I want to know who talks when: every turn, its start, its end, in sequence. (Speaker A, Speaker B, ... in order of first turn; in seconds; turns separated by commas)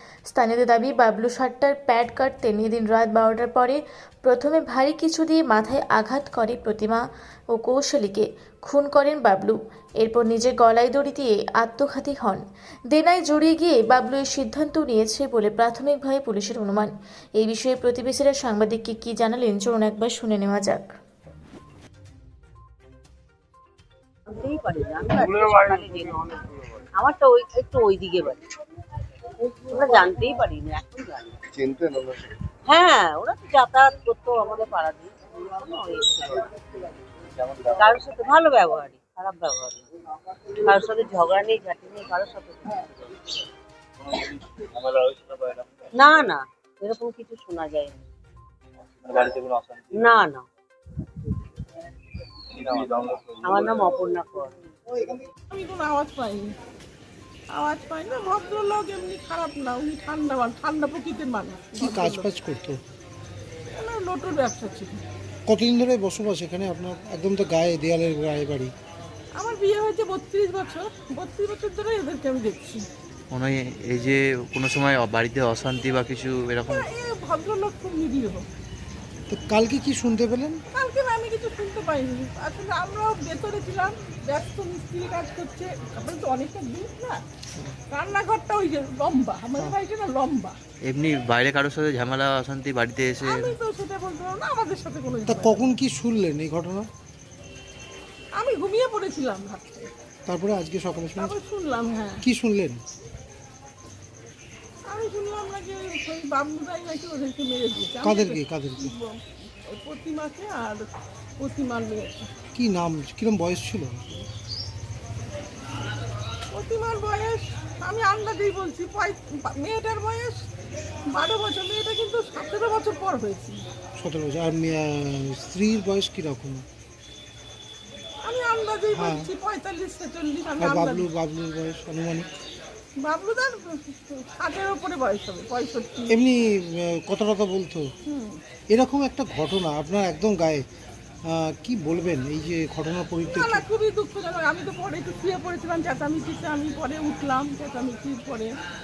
Speaker A: 0.3-7.0, Speaker A: 7.5-20.9, Speaker B: 24.3-28.4, Speaker B: 29.4-31.5, Speaker B: 32.6-36.5, Speaker B: 37.7-39.9, Speaker B: 40.5-42.9, Speaker C: 44.5-45.8, Speaker B: 45.9-48.0, Speaker C: 49.1-49.9, Speaker B: 49.9-50.5, Speaker C: 52.6-53.3, Speaker B: 53.4-54.5, Speaker D: 55.5-56.5, Speaker D: 57.5-62.3, Speaker E: 61.8-62.8, Speaker D: 63.7-65.0, Speaker E: 65.5-68.7, Speaker D: 69.3-72.8, Speaker F: 73.3-76.9, Speaker D: 76.7-78.5, Speaker E: 79.3-80.6, Speaker D: 80.7-87.2, Speaker D: 87.9-90.6, Speaker F: 90.8-93.5, Speaker D: 93.2-95.8, Speaker E: 95.2-96.9, Speaker D: 98.3-99.9, Speaker E: 100.3-101.3, Speaker D: 101.2-102.2, Speaker E: 102.2-102.8, Speaker D: 104.9-110.9, Speaker E: 108.0-108.9, Speaker D: 111.4-112.3, Speaker E: 112.5-114.3, Speaker D: 116.5-120.4, Speaker D: 121.1-123.6, Speaker E: 124.0-126.7, Speaker D: 128.2-131.1, Speaker E: 128.9-129.3, Speaker E: 130.6-132.3, Speaker D: 133.0-136.2, Speaker E: 136.1-137.9, Speaker D: 138.1-138.4, Speaker E: 138.7-140.6, Speaker E: 141.2-143.6, Speaker D: 143.3-148.5